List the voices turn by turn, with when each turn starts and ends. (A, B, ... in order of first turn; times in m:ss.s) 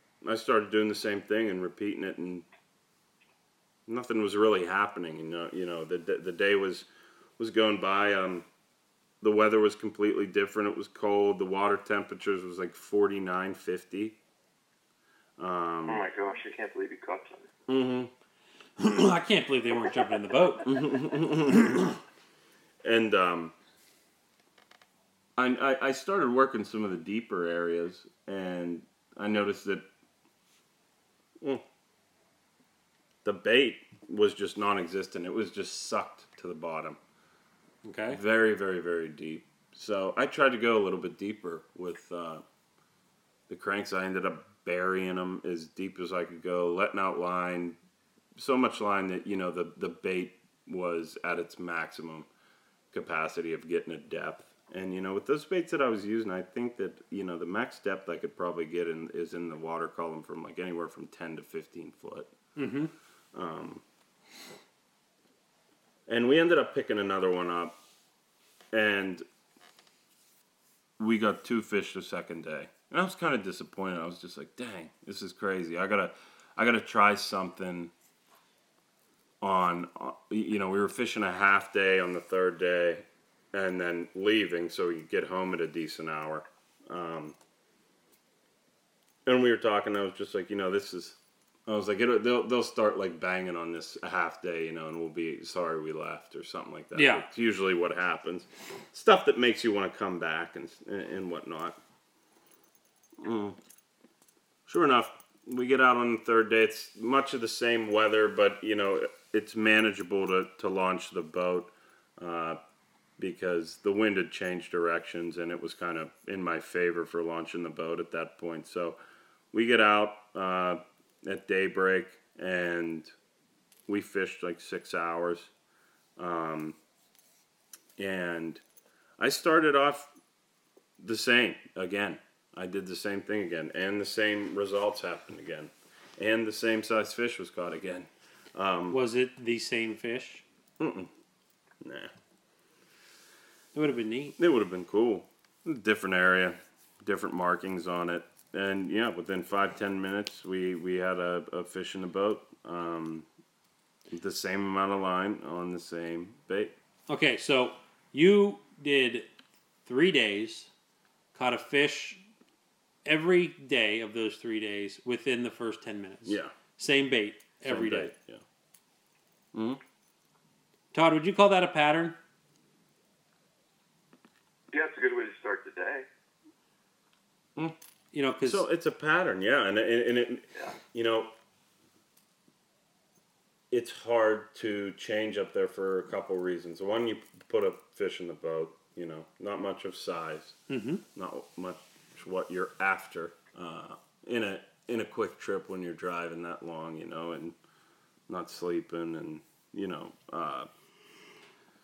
0:00.2-0:02.5 A
0:03.9-0:08.5 A
0:09.2-0:14.2 A
0:15.4-0:16.0 A
0:15.9-0:17.5 B
0:17.7-0:18.1 A
0:18.8-0:21.0 C
0:20.6-0:21.9 A
0:22.8-0:23.5 A
0:25.4-0:29.9 A
0:33.2-0:37.0 A
0:37.8-0:38.2 C
0:38.1-0:42.4 A
0:43.5-0:47.8 A
0:48.4-0:52.3 A
0:52.9-1:02.3 A
1:02.6-1:02.9 C
1:03.3-1:03.8 A
1:06.1-1:07.8 A
1:08.7-1:09.2 A
1:11.0-1:17.9 A
1:19.4-1:27.4 A
1:29.3-1:41.8 A
1:37.0-1:37.3 C
1:43.2-1:43.6 A
1:44.7-1:52.6 A
1:53.2-1:59.0 A
1:59.5-2:03.1 A
2:03.9-2:05.5 A
2:06.2-2:06.8 A
2:08.0-2:08.6 A
2:09.2-2:10.1 A
2:11.0-2:19.0 A
2:18.9-2:20.4 C
2:20.8-2:21.1 A
2:21.8-2:22.1 A
2:23.7-2:24.4 C
2:24.4-2:33.3 A
2:34.1-2:36.7 A
2:37.1-2:39.3 C
2:39.9-2:40.7 C
2:41.3-2:42.2 C
2:43.0-2:48.1 C
2:46.2-2:46.5 A
2:47.6-2:48.4 A
2:49.5-2:49.8 A
2:50.9-2:52.2 C
2:54.7-2:56.1 B
2:58.1-2:58.6 C
2:58.4-3:01.3 A
3:03.7-3:10.6 A
3:10.7-3:11.0 C
3:11.1-3:17.6 A
3:18.3-3:20.7 A